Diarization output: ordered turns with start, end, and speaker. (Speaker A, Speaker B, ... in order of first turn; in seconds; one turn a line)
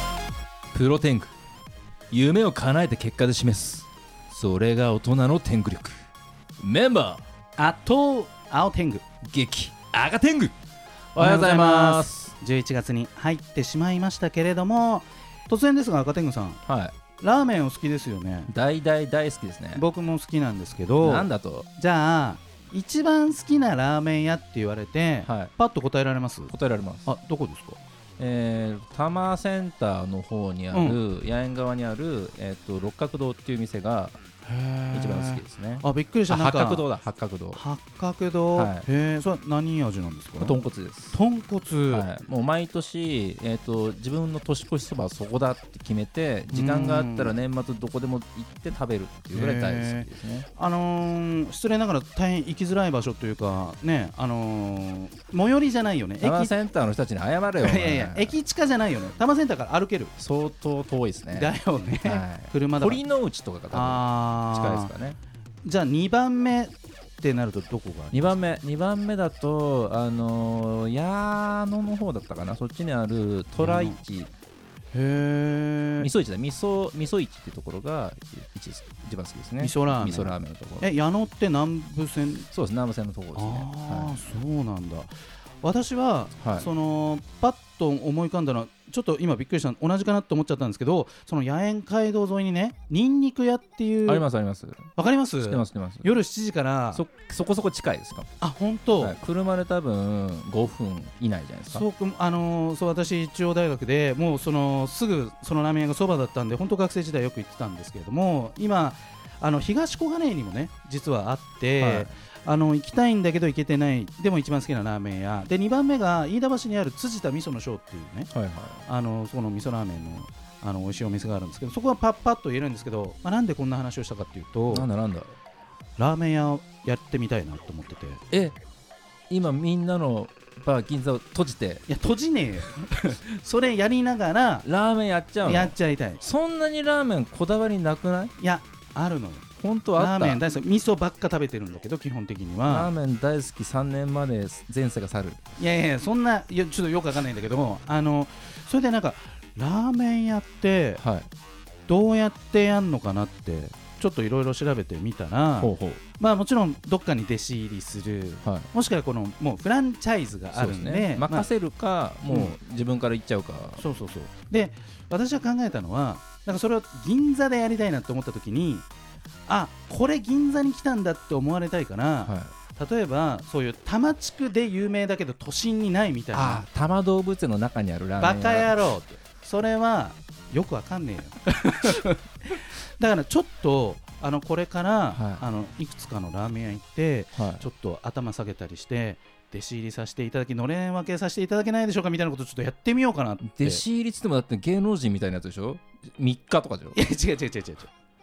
Speaker A: 0.7-1.3
Speaker A: 2.1-6.0
Speaker A: 6.6-7.2
Speaker B: 7.6-9.0
Speaker A: 9.2-10.6
Speaker A: 11.2-12.3
Speaker B: 11.2-16.6
Speaker A: 16.7-16.9
Speaker B: 17.2-18.5
Speaker A: 18.5-19.8
Speaker B: 19.8-26.5
Speaker A: 21.0-21.7
Speaker A: 25.3-25.5
Speaker A: 26.5-27.1
Speaker B: 27.1-27.8
Speaker A: 28.2-34.2
Speaker B: 30.7-31.0
Speaker B: 34.5-36.9
Speaker A: 34.9-37.6
Speaker B: 37.5-40.6
Speaker A: 38.5-38.9
Speaker A: 40.4-41.2
Speaker B: 41.1-42.1
Speaker A: 41.9-50.5
Speaker B: 46.5-47.4
Speaker B: 49.3-56.5
Speaker A: 56.2-58.4
Speaker B: 57.6-60.1
Speaker A: 60.2-65.2
Speaker B: 61.3-63.0
Speaker B: 63.7-64.9
Speaker B: 65.6-68.4
Speaker A: 68.1-74.3
Speaker B: 73.6-74.0
Speaker B: 74.9-76.1
Speaker A: 76.0-80.9
Speaker B: 79.6-82.5
Speaker A: 82.5-84.2
Speaker B: 83.3-94.3
Speaker A: 86.4-86.7
Speaker A: 94.1-96.1
Speaker B: 95.0-97.0
Speaker A: 96.9-98.3
Speaker B: 98.4-99.2
Speaker A: 99.0-101.8
Speaker B: 101.7-118.3
Speaker A: 111.8-112.1
Speaker A: 118.3-118.8
Speaker B: 118.9-124.9
Speaker A: 124.7-125.3
Speaker B: 126.0-128.2
Speaker A: 128.3-128.6
Speaker A: 129.3-131.8
Speaker B: 131.9-134.7
Speaker A: 134.6-138.3
Speaker B: 135.4-136.2
Speaker B: 138.4-142.9
Speaker A: 139.6-140.4
Speaker A: 142.7-145.4
Speaker B: 145.6-151.0
Speaker A: 151.0-151.3
Speaker B: 151.9-161.5
Speaker A: 155.6-156.0
Speaker A: 158.4-158.7
Speaker A: 160.5-163.8
Speaker B: 162.3-162.6
Speaker B: 163.8-168.9
Speaker B: 169.5-176.6
Speaker A: 172.2-172.5
Speaker A: 176.3-178.8
Speaker B: 178.2-193.8
Speaker A: 185.1-185.4
Speaker A: 187.4-187.7
Speaker A: 193.4-197.0
Speaker B: 196.9-197.9